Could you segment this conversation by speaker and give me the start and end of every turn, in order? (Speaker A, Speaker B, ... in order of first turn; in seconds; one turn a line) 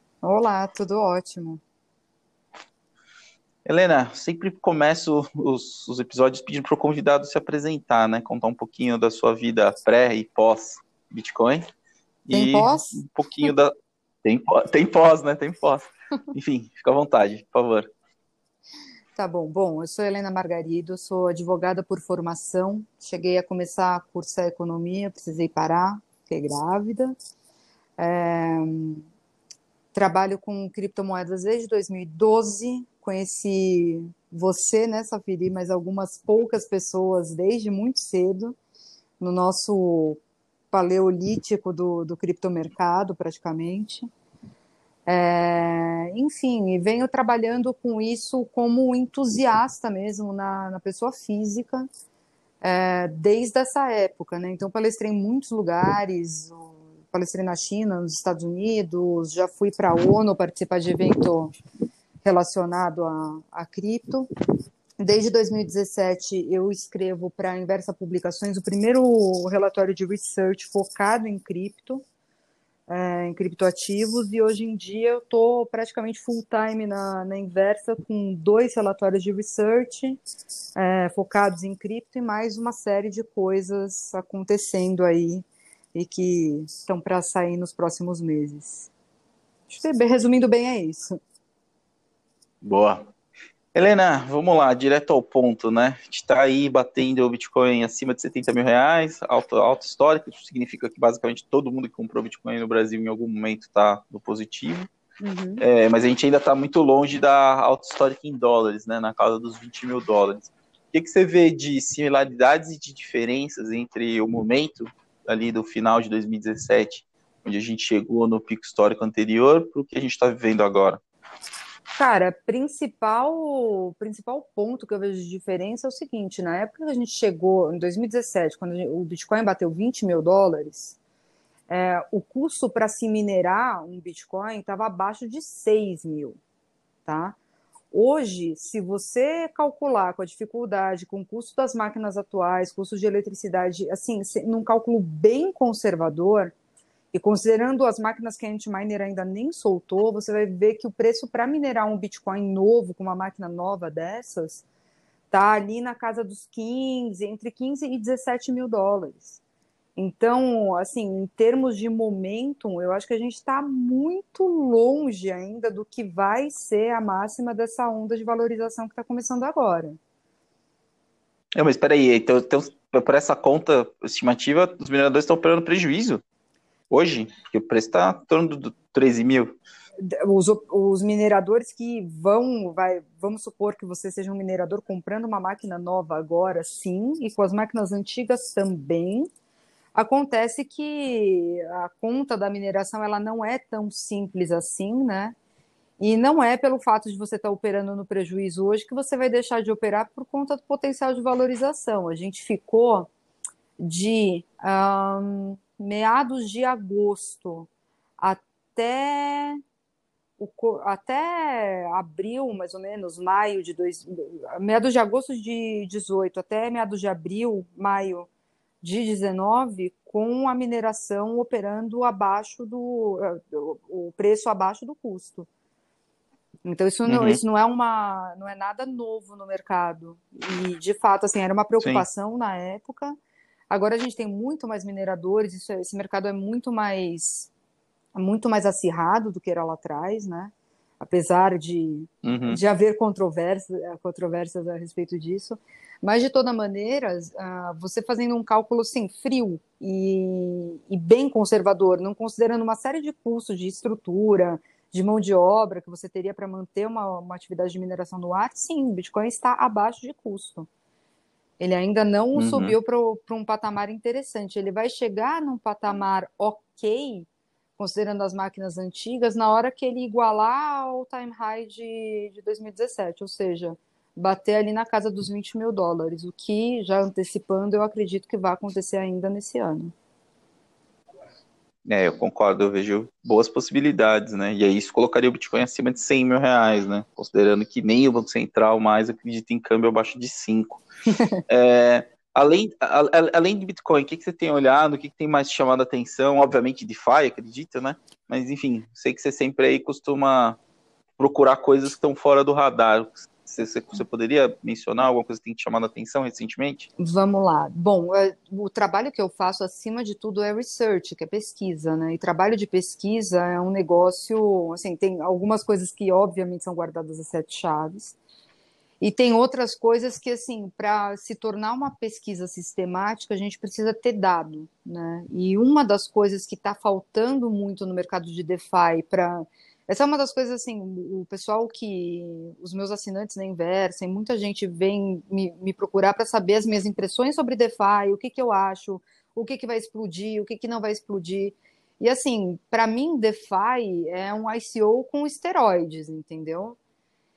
Speaker A: 0.2-1.6
Speaker B: 3.7-11.7
Speaker B: 12.3-13.7
Speaker A: 12.3-13.5
Speaker B: 14.2-17.9
Speaker A: 19.2-27.1
Speaker A: 28.0-29.0
Speaker A: 29.9-38.6
Speaker A: 39.2-40.2
Speaker A: 40.7-44.1
Speaker A: 45.1-51.9
Speaker A: 52.6-61.5
Speaker A: 62.2-64.3
Speaker A: 65.0-72.0
Speaker A: 72.9-80.2
Speaker A: 80.8-88.9
Speaker A: 89.7-91.2
Speaker B: 92.6-93.0
Speaker B: 93.7-104.9
Speaker A: 105.2-105.6
Speaker B: 105.6-121.0
Speaker A: 122.0-131.0
Speaker A: 131.7-136.4
Speaker A: 137.1-137.4
Speaker A: 137.9-146.5
Speaker A: 147.1-154.7
Speaker A: 155.3-159.4
Speaker A: 160.0-170.0
Speaker B: 171.6-176.2
Speaker B: 176.9-179.6
Speaker A: 180.0-189.3
Speaker A: 189.9-195.4
Speaker A: 196.0-203.1
Speaker A: 203.8-207.7
Speaker A: 208.2-209.6
Speaker A: 210.4-218.3
Speaker A: 218.8-225.5
Speaker A: 226.6-233.2
Speaker B: 227.1-227.4
Speaker A: 233.7-237.5
Speaker A: 238.2-260.7
Speaker B: 242.2-242.6
Speaker A: 261.6-267.3
Speaker B: 262.4-262.8
Speaker A: 267.8-279.9
Speaker B: 281.9-290.8
Speaker A: 291.1-291.4
Speaker B: 291.5-300.6
Speaker B: 301.2-306.9
Speaker A: 307.0-318.2
Speaker A: 319.0-346.8